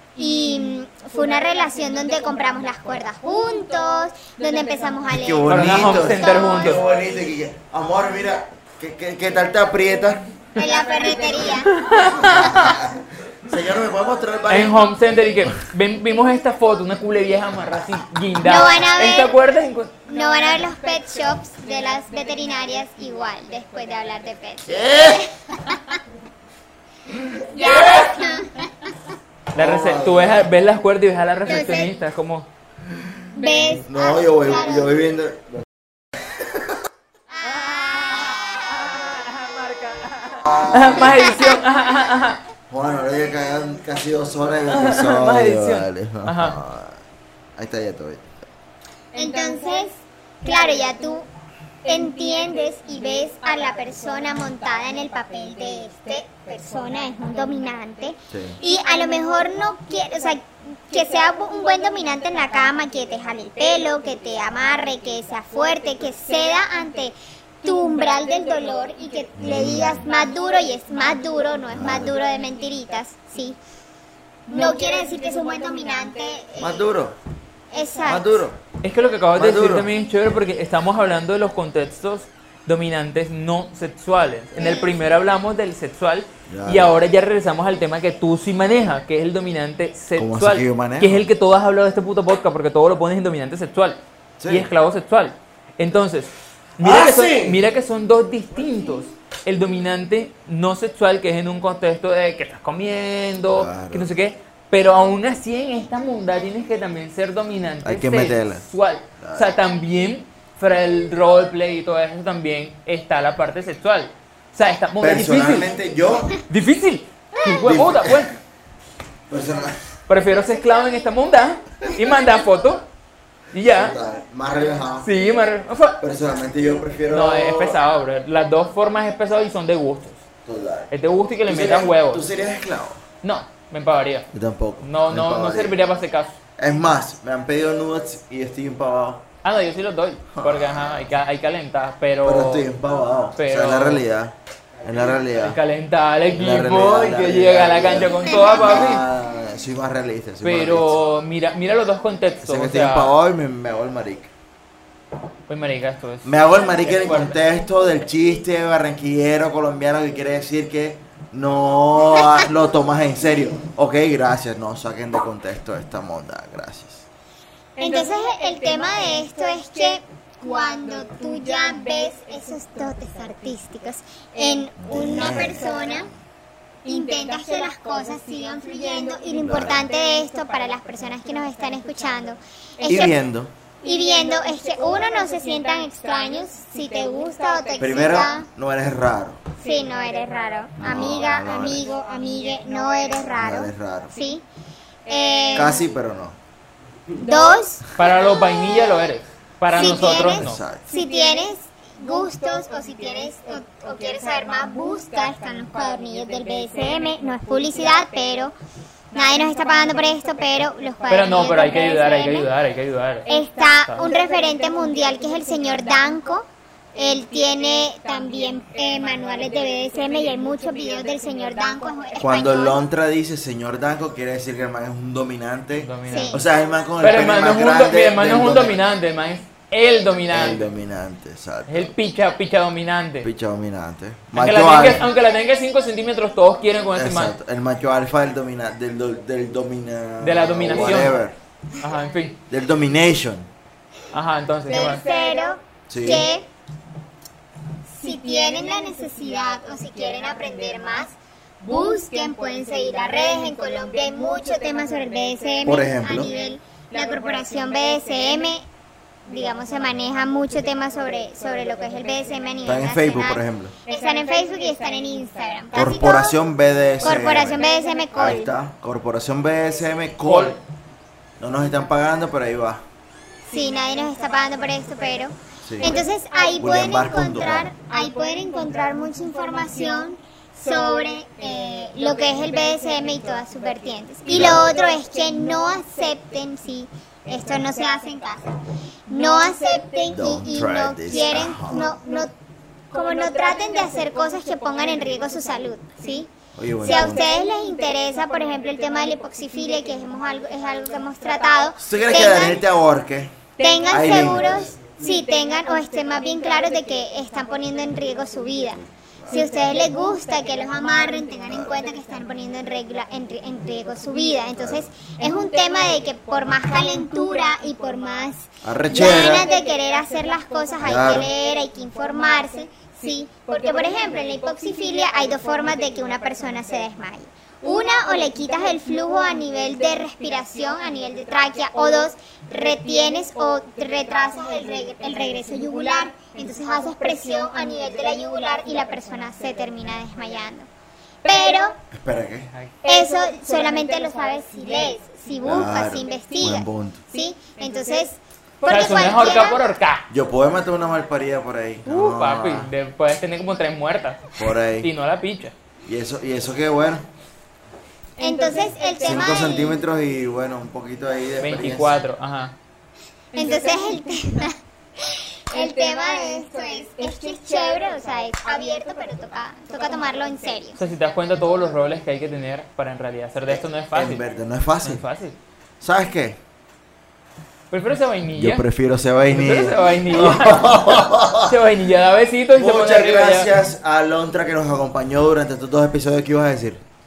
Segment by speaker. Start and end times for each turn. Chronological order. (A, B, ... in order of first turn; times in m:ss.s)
0:00.2-0:06.8 A
0:05.1-0:10.3 B
0:05.5-0:06.8 C
0:10.6-0:11.8 A
0:11.7-0:12.8 C
0:12.2-0:14.8 B
0:14.5-0:20.0 C
0:18.4-0:19.4 A
0:20.1-0:26.0 A
0:24.7-0:25.2 B
0:27.5-0:28.9 A
0:29.5-0:32.5 C
0:29.6-0:30.5 B
0:31.5-0:31.9 A
0:33.3-0:35.0 A
0:33.9-0:35.7 B
0:37.4-0:38.5 A
0:38.2-0:42.4 C
0:40.4-0:41.3 B
0:42.7-0:47.0 B
0:44.7-0:46.6 C
0:47.6-0:48.4 B
0:49.1-0:51.3 A
0:51.8-1:13.6 A
0:58.3-0:58.6 B
1:09.4-1:10.0 B
1:11.7-1:12.1 B
1:14.5-1:16.8 A
1:16.6-1:17.2 B
1:17.7-1:18.4 A
1:18.1-1:18.6 B
1:18.8-1:55.7 C
1:19.4-1:19.9 B
1:24.6-1:24.9 A
1:26.5-1:27.0 B
1:30.2-1:31.3 B
1:34.4-1:34.7 B
1:36.8-1:37.6 B
1:43.5-1:44.2 B
1:47.8-1:48.6 B
1:49.2-1:49.6 B
1:55.0-1:56.4 B
1:56.5-1:58.4 C
1:57.6-1:58.4 B
1:59.3-1:59.8 B
2:00.1-2:02.8 C
2:03.5-2:04.0 C
2:03.7-2:05.1 B
2:05.0-2:06.0 C
2:06.0-2:07.8 B
2:07.1-2:10.2 C
2:10.5-2:10.9 B
2:10.9-2:12.3 C
2:11.5-2:13.0 B
2:13.2-2:14.3 C
2:14.3-2:15.8 B
2:14.8-2:16.4 C
2:16.6-2:19.3 B
2:19.4-2:22.7 C
2:20.4-2:20.9 B
2:22.2-2:25.6 B
2:23.4-2:24.0 C
2:25.3-2:29.0 C
2:26.3-2:31.0 B
2:30.4-2:33.2 C
2:32.4-2:34.3 B
2:35.5-2:37.4 C
2:36.2-2:47.1 B
2:47.8-2:56.1 A
2:54.8-2:56.1 B
2:56.8-3:03.2 A
2:59.4-2:59.9 B
3:02.8-3:03.5 B
3:03.8-3:08.5 A
3:07.8-3:09.5 B
3:09.6-3:14.4 A
3:10.8-3:11.9 B
3:13.4-3:14.1 B
3:15.1-3:15.8 A
3:15.6-3:16.4 B
3:17.2-3:17.9 A
3:18.0-3:20.6 C
3:19.7-3:28.5 A
3:20.2-3:20.8 B
3:29.1-3:32.5 A
3:31.1-3:33.3 C
3:33.3-3:42.8 A
3:42.2-3:48.8 B
3:45.8-3:46.4 C
3:46.1-3:46.4 A
3:47.0-3:50.7 C
3:50.3-3:52.0 B
3:51.7-3:53.3 C
3:53.2-3:55.1 B
3:54.3-3:57.4 C
3:56.9-4:01.4 B
4:00.2-4:01.2 C
4:01.8-4:02.4 C
4:02.5-4:03.5 B
4:04.1-4:05.0 C
4:04.7-4:06.5 A
4:05.9-4:06.3 B
4:07.9-4:18.7 A
4:15.6-4:16.3 B
4:19.3-4:26.4 A
4:22.7-4:23.8 B
4:25.7-4:27.6 B
4:27.0-4:28.5 A
4:28.2-4:30.6 B
4:30.2-4:30.6 C
4:31.4-4:32.8 B
4:33.5-4:52.3 A
4:35.6-4:36.0 B
4:36.6-4:37.7 B
4:44.3-4:44.7 B
4:50.1-4:52.0 B
4:52.9-4:56.3 A
4:56.6-4:57.2 B
4:56.8-5:02.6 A
5:01.8-5:03.4 B
5:03.6-5:40.7 A
5:03.9-5:04.8 B
5:14.6-5:14.9 B
5:18.6-5:19.5 B
5:20.8-5:21.3 B
5:41.2-5:41.8 A
5:41.9-5:42.5 B
5:42.8-5:49.6 A
5:45.4-5:47.0 B
5:48.6-5:50.1 C
5:50.1-5:52.7 B
5:51.9-5:55.6 C
5:54.4-5:54.9 B
5:55.8-5:57.1 B
5:58.2-5:59.8 A
5:59.0-6:02.0 B
6:01.4-6:02.6 C
6:03.3-6:10.8 A
6:10.8-6:14.2 C
6:13.9-6:15.0 B
6:14.8-6:15.4 C
6:15.8-6:16.4 B
6:17.7-6:18.6 C
6:18.4-6:21.6 B
6:19.3-6:23.5 C
6:22.6-6:26.8 B